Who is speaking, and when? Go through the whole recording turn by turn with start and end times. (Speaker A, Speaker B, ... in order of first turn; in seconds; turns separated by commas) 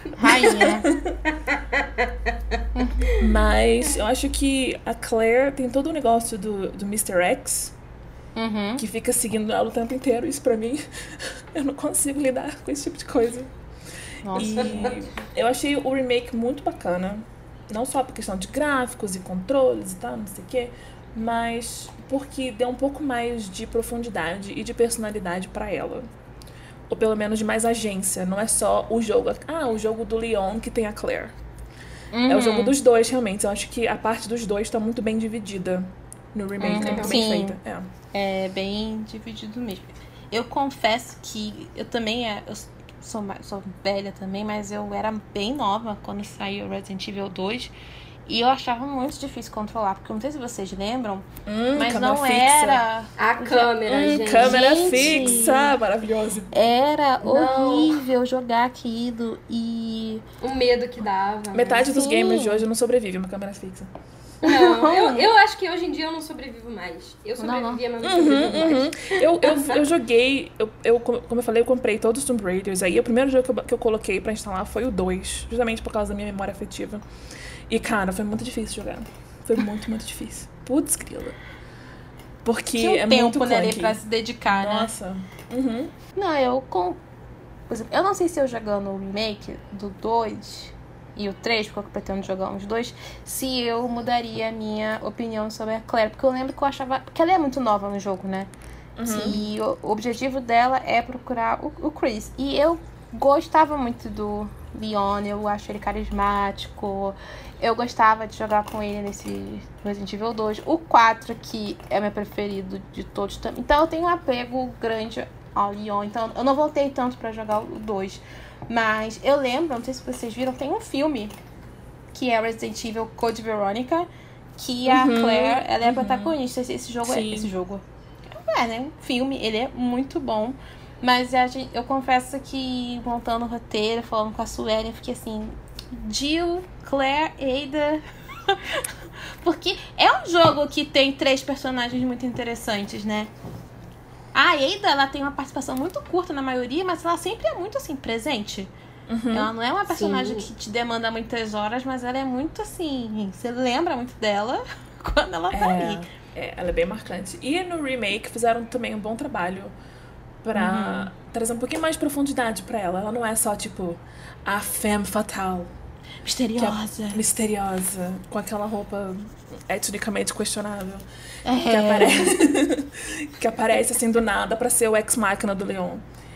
Speaker A: 0.1-0.9, Speaker B: 0.2-1.1, Speaker C: 1.5-2.0, Speaker A: 2.8-3.1, Speaker B: 3.2-7.7, Speaker A: 8.4-8.8, Speaker B: 8.8-13.5, Speaker A: 14.2-15.0, Speaker B: 14.3-26.1, Speaker C: 14.6-14.9, Speaker B: 26.9-31.3, Speaker A: 32.1-32.8, Speaker B: 32.3-37.9, Speaker A: 36.6-37.6, Speaker C: 36.7-37.2, Speaker A: 38.1-47.7, Speaker A: 48.3-53.7, Speaker B: 51.5-52.8, Speaker C: 53.2-55.7, Speaker B: 53.9-56.5, Speaker A: 54.3-55.7, Speaker A: 56.5-60.2, Speaker C: 57.2-58.0, Speaker C: 60.4-61.9, Speaker B: 61.5-63.9, Speaker A: 61.9-62.6, Speaker A: 64.4-65.2, Speaker C: 64.4-69.8, Speaker A: 67.4-67.8, Speaker B: 68.0-77.0, Speaker B: 77.7-81.4, Speaker B: 82.4-85.9, Speaker A: 82.8-84.9, Speaker A: 86.1-87.0, Speaker A: 87.7-98.5, Speaker B: 99.0-99.4, Speaker A: 99.0-121.3, Speaker A: 122.1-124.1, Speaker A: 124.6-138.9, Speaker B: 124.9-126.3, Speaker B: 127.0-127.5, Speaker A: 139.4-143.3, Speaker A: 144.3-148.7, Speaker B: 149.1-149.5, Speaker A: 149.3-156.1, Speaker C: 149.9-150.5, Speaker B: 155.5-159.7, Speaker B: 160.4-165.7, Speaker A: 160.6-161.1, Speaker A: 166.2-167.2, Speaker B: 166.6-171.0, Speaker A: 171.4-172.5, Speaker B: 171.6-176.0